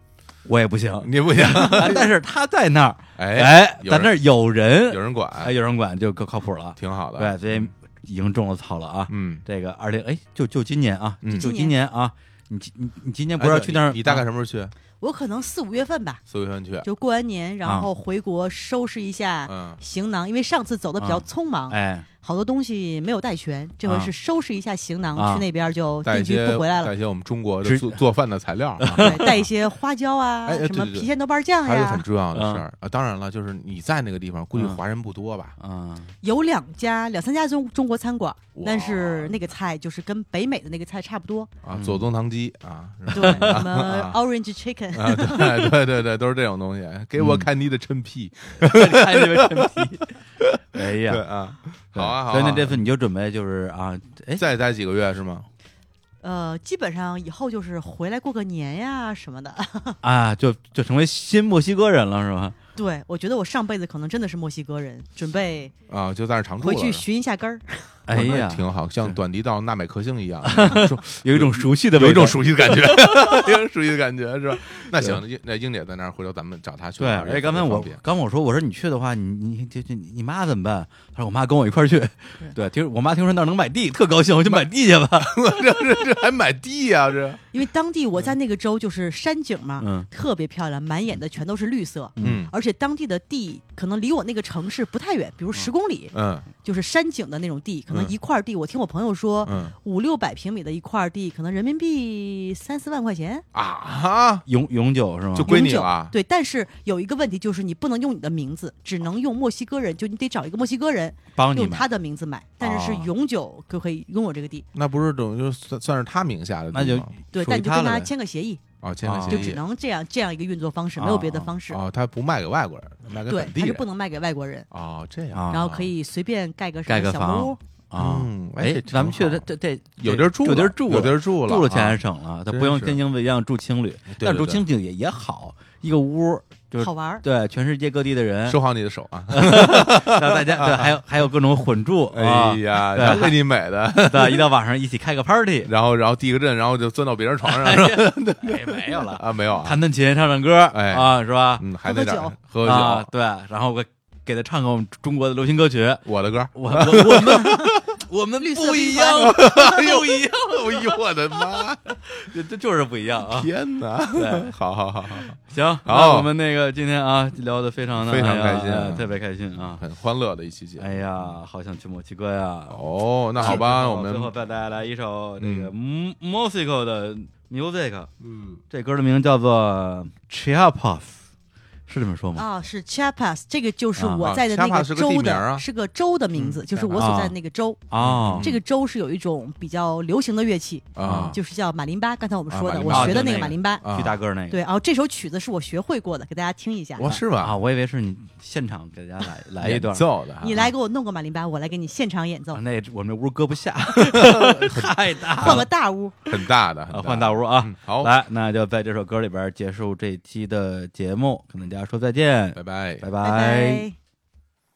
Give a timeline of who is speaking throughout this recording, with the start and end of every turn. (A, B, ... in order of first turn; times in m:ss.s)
0:00.4-0:14.2 A
0:01.0-0:02.1 B
0:03.2-0:04.2 B
0:04.9-0:05.5 B
0:06.8-0:07.7 B
0:09.1-0:09.4 B
0:11.2-0:11.5 B
0:11.3-0:11.7 C
0:13.4-0:14.7 B
0:15.0-0:16.2 C
0:16.3-0:16.9 B
0:16.8-0:26.9 C
0:17.6-0:17.9 A
0:19.5-0:19.8 B
0:21.0-0:22.0 A
0:23.8-0:24.1 A
0:25.2-0:25.4 A
0:26.0-0:29.4 B
0:27.6-0:28.0 A
0:28.8-0:29.2 A
0:28.9-0:32.0 C
0:30.4-0:31.1 B
0:31.6-0:35.5 B
0:32.3-0:32.6 A
0:35.6-0:36.1 A
0:36.2-0:41.5 C
0:38.6-0:39.5 B
0:41.6-0:44.2 B
0:41.7-0:42.1 A
0:43.1-0:45.7 C
0:43.2-0:43.6 A
0:44.9-0:52.8 B
0:47.2-0:47.5 A
0:48.6-0:50.1 A
0:50.7-0:51.2 A
0:51.9-0:54.4 A
0:54.4-0:55.5 B
0:56.2-1:00.0 C
1:00.0-1:02.6 A
1:02.8-1:05.7 C
1:05.9-1:07.0 B
1:06.6-1:08.0 C
1:08.1-1:08.6 A
1:08.1-1:18.0 B
1:10.4-1:13.3 A
1:17.0-1:25.5 A
1:25.2-1:27.4 B
1:27.5-1:43.4 C
1:29.8-1:30.1 A
1:32.2-1:32.4 A
1:32.2-1:32.5 B
1:36.1-1:36.5 B
1:37.9-1:38.1 B
1:39.4-1:39.7 B
1:43.5-1:44.5 B
1:44.4-1:45.6 A
1:45.3-1:46.1 B
1:45.4-1:54.6 C
1:51.4-1:51.9 A
1:52.6-1:53.1 B
1:54.7-1:57.1 B
1:56.7-1:58.1 A
1:57.3-1:58.6 C
1:58.8-1:59.6 B
1:59.0-1:59.5 A
1:59.2-2:01.8 C
2:01.0-2:01.5 A
2:01.7-2:03.8 B
2:03.3-2:04.7 C
2:04.7-2:05.8 B
2:05.3-2:05.8 A
2:05.5-2:07.6 C
2:06.8-2:18.6 A
2:08.0-2:09.4 B
2:10.0-2:13.0 B
2:14.1-2:14.6 B
2:16.8-2:17.2 C
2:18.5-2:20.9 B
2:19.3-2:23.3 A
2:22.1-2:24.5 B
2:24.0-2:25.7 A
2:25.6-2:29.8 B
2:27.4-2:31.6 A
2:30.7-2:33.1 B
2:31.8-2:32.3 C
2:32.6-2:40.3 A
2:36.0-2:37.8 B
2:37.4-2:37.7 C
2:38.4-2:39.5 C
2:39.0-2:41.9 B
2:42.1-2:43.5 A
2:43.3-2:46.3 B
2:44.1-2:44.5 A
2:45.4-2:49.8 A
2:48.0-2:51.3 B
2:50.8-2:58.1 A
2:52.7-2:54.3 B
2:55.4-2:55.7 B
2:58.7-3:01.2 A
3:01.9-3:02.4 A
3:02.4-3:13.9 C
3:04.0-3:04.3 A
3:04.2-3:05.6 B
3:06.3-3:06.9 B
3:06.9-3:07.3 A
3:07.9-3:08.5 A
3:08.0-3:08.6 B
3:11.0-3:11.4 B
3:11.0-3:11.3 A
3:12.5-3:14.2 B
3:12.9-3:14.6 A
3:14.5-3:17.2 C
3:17.0-3:17.6 B
3:17.1-3:20.7 A
3:19.6-3:20.6 B
3:20.4-3:22.6 C
3:22.5-3:25.6 A
3:24.0-3:25.7 B
3:25.4-3:26.2 C
3:26.2-3:28.1 B
3:26.9-3:33.8 A
3:32.5-3:33.1 B
3:33.2-3:33.9 C